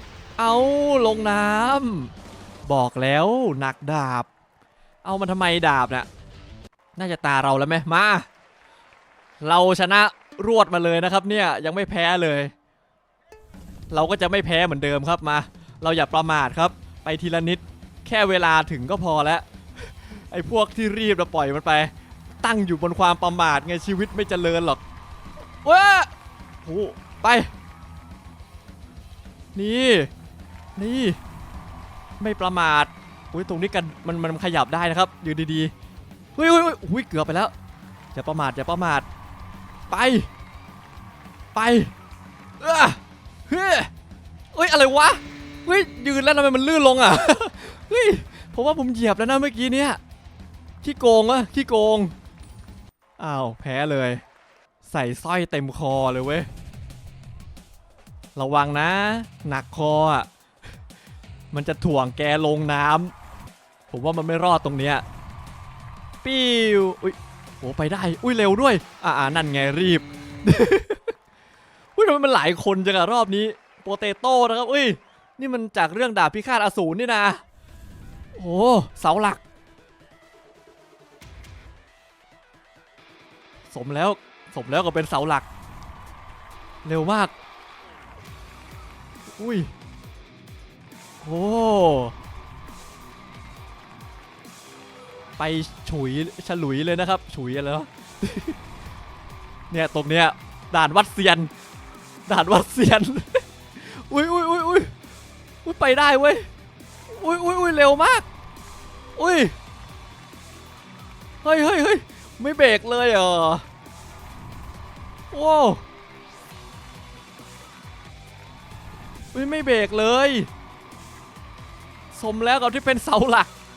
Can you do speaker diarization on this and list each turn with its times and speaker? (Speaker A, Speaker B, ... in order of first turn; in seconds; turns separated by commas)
Speaker A: 0.4-2.1, Speaker A: 2.7-4.3, Speaker A: 5.0-6.1, Speaker A: 7.0-8.2, Speaker A: 9.4-12.5, Speaker A: 13.9-24.8, Speaker A: 25.6-26.1, Speaker A: 26.6-27.5, Speaker A: 29.6-30.1, Speaker A: 30.8-31.2, Speaker A: 32.2-35.7, Speaker A: 36.4-37.5, Speaker A: 38.1-39.1, Speaker A: 39.9-40.3, Speaker A: 41.5-41.9, Speaker A: 42.6-43.9, Speaker A: 44.5-50.0, Speaker A: 50.8-52.1, Speaker A: 53.2-54.2, Speaker A: 54.8-56.5, Speaker A: 58.4-60.3, Speaker A: 61.5-63.1, Speaker A: 63.9-65.0, Speaker A: 66.2-71.2, Speaker A: 72.0-77.4, Speaker A: 78.3-79.4, Speaker A: 83.7-85.5, Speaker A: 86.8-87.3, Speaker A: 89.4-89.7, Speaker A: 91.2-92.1, Speaker A: 95.4-98.6, Speaker A: 99.7-101.5, Speaker A: 102.3-104.9, Speaker A: 105.6-106.5, Speaker A: 107.1-108.3, Speaker A: 109.2-109.5, Speaker A: 111.4-113.7, Speaker A: 115.3-115.8, Speaker A: 119.3-120.5, Speaker A: 122.1-123.5